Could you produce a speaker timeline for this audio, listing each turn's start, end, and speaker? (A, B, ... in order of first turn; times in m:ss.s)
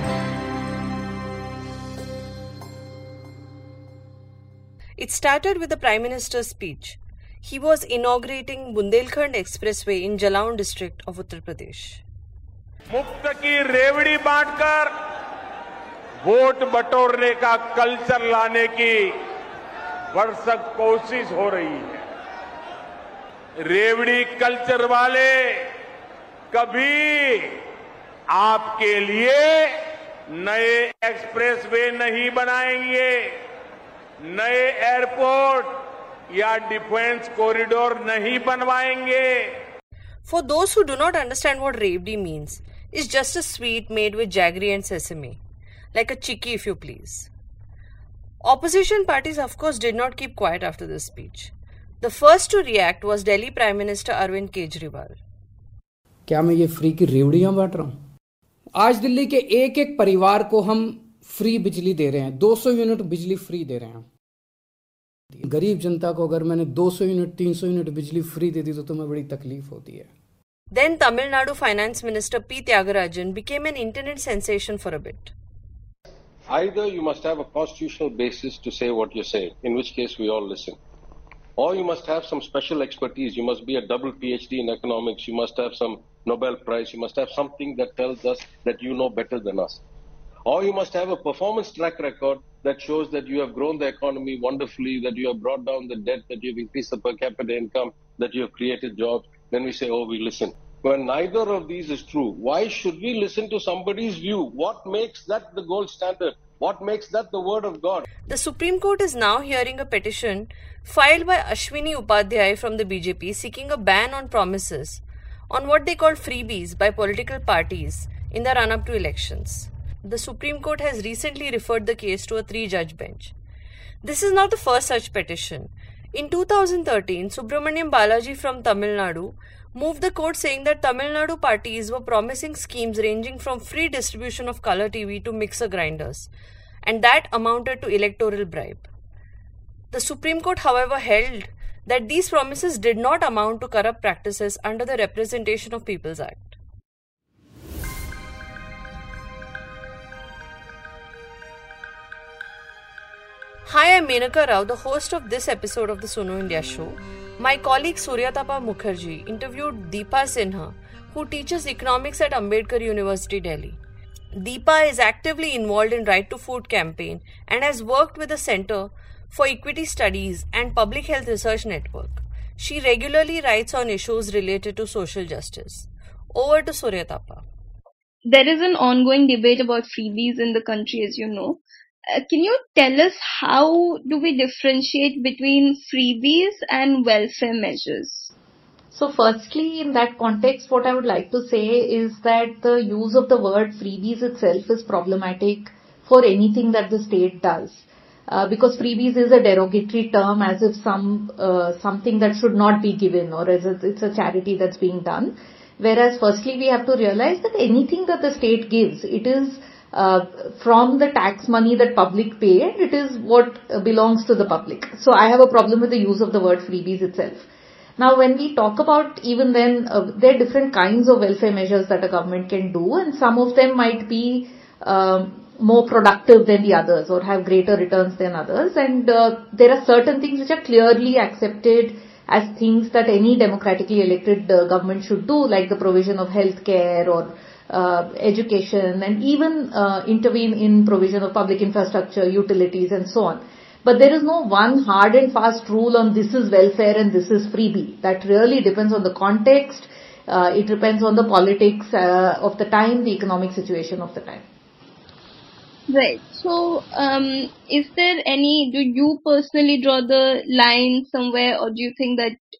0:05.0-0:12.0 A
0:12.9-0:14.9 B
0:16.2-0:19.1 B
0:20.1-0:22.0 B
0:23.6-0:25.6 B
0:26.5-0:27.6 B
0:28.3-0:29.7 B
0:30.3-0:33.3 B
0:34.2-0:35.7 B
0:36.3-0:39.5 B
0:40.2-0:45.4 A
0:45.9-0:47.3 A
0:48.4-0:55.2 A
0:56.3-0:58.0 C
0:58.7-1:04.0 C
1:05.3-1:10.1 C
1:10.7-1:15.3 A
1:16.5-1:20.8 D
1:21.6-1:29.8 D
1:30.4-1:48.1 D
1:48.2-2:03.3 A
2:04.0-2:16.3 A
2:16.8-2:18.9 A
2:19.9-2:26.5 A
2:33.6-2:43.8 A
2:44.4-2:57.4 A
2:58.2-3:08.3 E
3:08.9-3:37.5 F
3:38.0-4:14.4 F
4:15.9-4:22.4 E